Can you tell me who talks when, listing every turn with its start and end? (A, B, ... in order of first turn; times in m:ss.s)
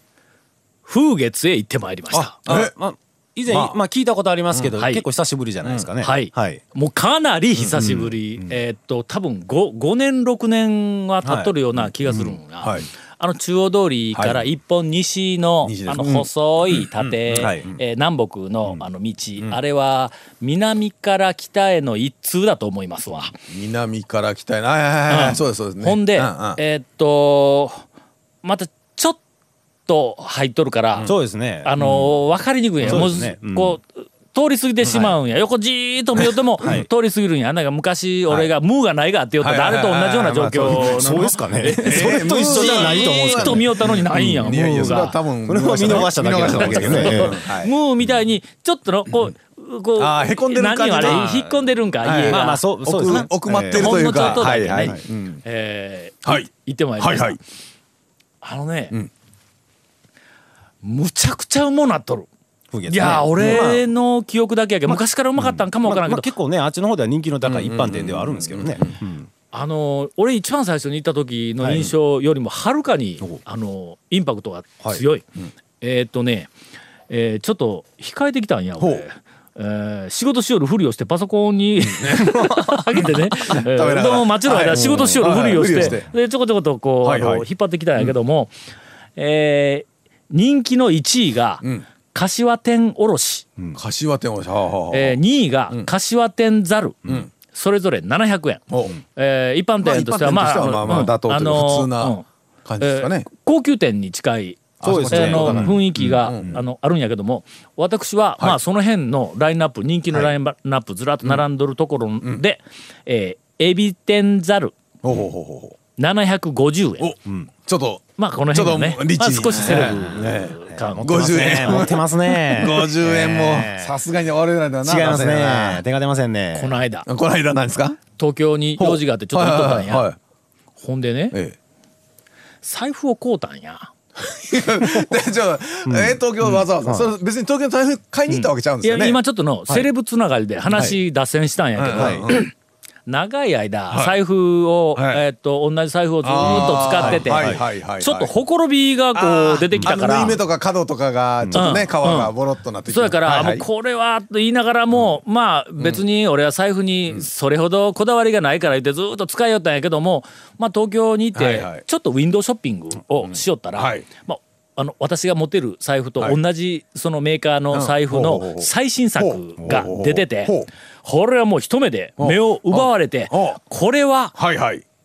0:00.8-0:02.3 A
0:02.1-0:06.6 B
0:02.4-0:02.7 C
0:03.5-0:03.8 C
0:04.5-0:04.8 C
0:04.8-0:05.0 A
0:05.6-0:05.9 C
0:06.0-0:23.3 A
0:07.5-0:08.1 C
0:11.2-0:12.4 B
0:12.6-0:12.9 C
0:14.1-0:14.5 C
0:15.6-0:17.8 C
0:17.3-0:17.7 B
0:23.5-0:26.6 C
0:25.1-0:27.8 A
0:28.4-0:29.2 A
0:29.8-0:31.1 A
0:31.0-0:31.7 B
0:31.6-0:45.2 A
0:31.8-0:32.2 C
0:32.8-0:33.7 C
0:32.8-0:33.8 B
0:34.8-0:35.2 C
0:36.2-0:36.8 C
0:36.6-0:36.9 B
0:39.4-0:47.7 C
0:40.4-0:43.7 B
0:45.4-0:47.4 B
0:45.8-0:57.4 A
0:50.0-0:51.3 C
0:51.0-0:51.6 B
0:52.0-0:55.4 C
0:52.2-0:55.0 B
0:56.2-0:57.4 C
0:58.4-0:59.0 A
1:00.8-1:02.3 A
1:02.7-1:03.8 B
1:02.9-1:06.3 A
1:03.4-1:03.7 C
1:04.9-1:09.3 B
1:07.4-1:08.9 C
1:09.5-1:15.2 A
1:11.6-1:11.9 B
1:15.8-1:16.5 A
1:17.1-1:28.5 A
1:18.8-1:19.0 C
1:21.8-1:26.1 C
1:22.2-1:22.6 B
1:27.0-1:27.4 C
1:29.2-1:33.4 A
1:33.8-1:35.9 C
1:34.9-1:42.2 A
1:38.7-1:39.0 C
1:39.8-1:43.3 C
1:40.8-1:41.1 B
1:42.8-1:54.8 A
1:44.8-1:46.6 C
1:44.8-1:45.9 B
1:55.0-1:55.8 C
1:56.0-1:57.1 A
1:57.0-2:05.8 C
1:58.2-2:02.0 A
1:59.5-2:03.9 B
2:04.8-2:06.8 B
2:06.5-2:07.0 A
2:07.0-2:08.0 C
2:08.2-2:10.0 A
2:08.8-2:10.2 C
2:10.8-2:11.4 A
2:12.6-2:13.9 A
2:14.2-2:19.2 C
2:14.8-2:15.2 B
2:15.9-2:17.1 B
2:18.3-2:22.5 A
2:21.8-2:22.5 C
2:21.9-2:22.3 B
2:23.0-2:30.4 A
2:23.9-2:24.2 C
2:24.9-2:25.2 C
2:26.2-2:28.3 C
2:26.4-2:27.6 B
2:29.1-2:33.6 C
2:31.4-2:31.9 B
2:31.5-2:32.3 A
2:32.9-2:54.4 A
2:35.8-2:36.0 C
2:41.3-2:41.8 C
2:43.2-2:44.0 C
2:47.7-2:50.7 C
2:52.2-2:53.6 C
2:54.4-2:54.8 C